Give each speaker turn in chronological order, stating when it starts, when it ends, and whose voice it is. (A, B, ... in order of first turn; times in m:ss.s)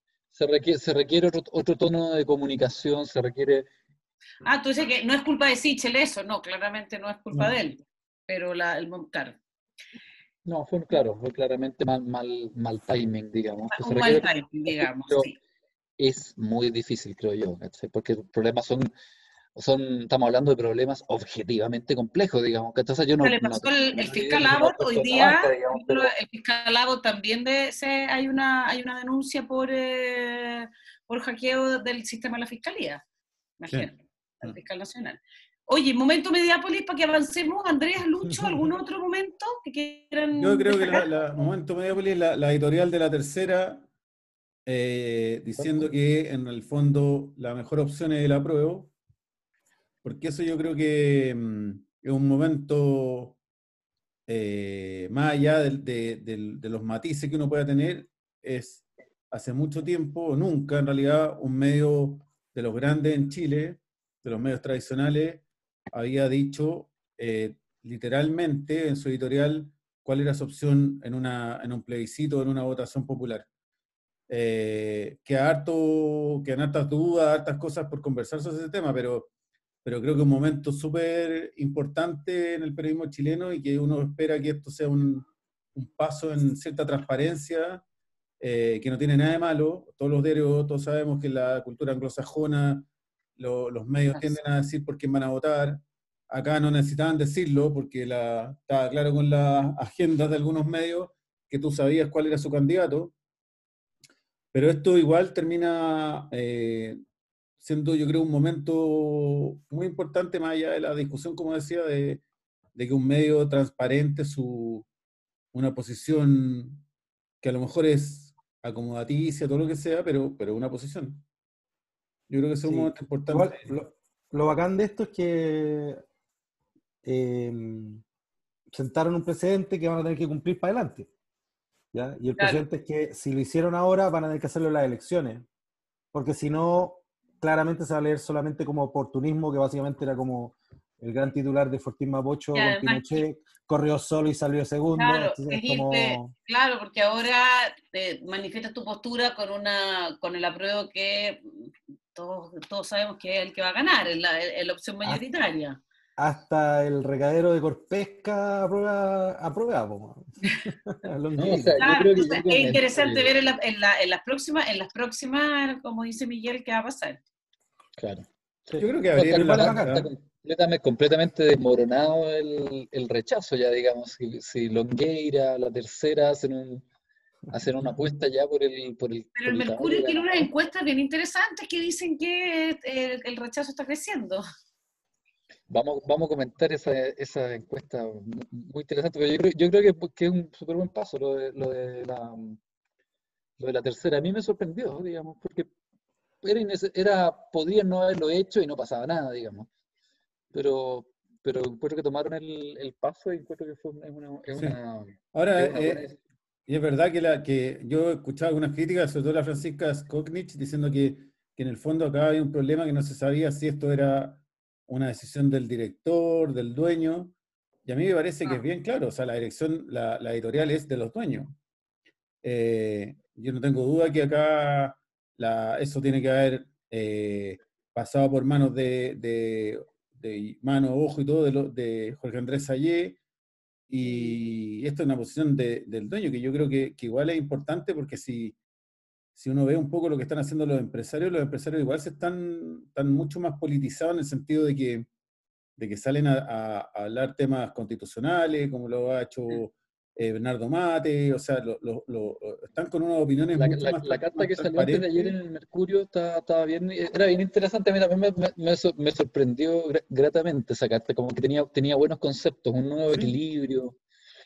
0:00.3-0:03.7 A
0:04.4-0:09.4 B
0:10.4-0:15.3 A
0:13.7-0:15.4 B
0:16.0-0:18.9 A
0:19.5-0:26.1 A
0:23.2-0:33.0 B
0:33.6-0:41.0 B
0:40.4-0:43.9 C
0:44.6-0:48.9 C
0:50.0-0:53.4 C
0:54.3-1:13.5 C
1:14.3-1:19.3 C
1:19.8-1:27.8 C
1:28.4-1:43.1 C
1:44.5-1:47.0 C
1:47.6-1:52.2 C
1:52.7-1:54.9 C
1:55.5-1:56.8 C
1:57.4-2:01.2 C
2:02.3-2:03.7 C
2:02.6-2:06.0 D
2:07.0-2:08.0 D
2:08.7-2:11.1 D
2:11.9-2:15.4 D
2:12.4-2:12.6 B
2:16.1-2:26.3 D
2:22.5-2:23.2 B
2:25.0-2:35.8 B
2:36.2-2:41.8 D
2:41.4-2:43.3 A
2:41.8-2:47.2 B
2:48.0-2:56.8 A
2:48.8-2:50.1 C
2:49.4-2:50.1 D
2:57.5-3:00.5 A
2:59.4-3:04.4 B
3:05.7-3:12.6 A
3:13.6-3:15.7 A
3:16.4-3:19.7 A
3:20.5-3:26.2 A
3:25.3-3:26.0 C
3:26.7-3:41.6 C
3:42.4-3:53.2 C
3:53.9-3:58.6 C
3:54.0-3:54.4 B
3:59.4-4:05.1 C
4:05.8-4:15.3 C
4:13.5-4:24.0 A
4:23.1-4:23.4 C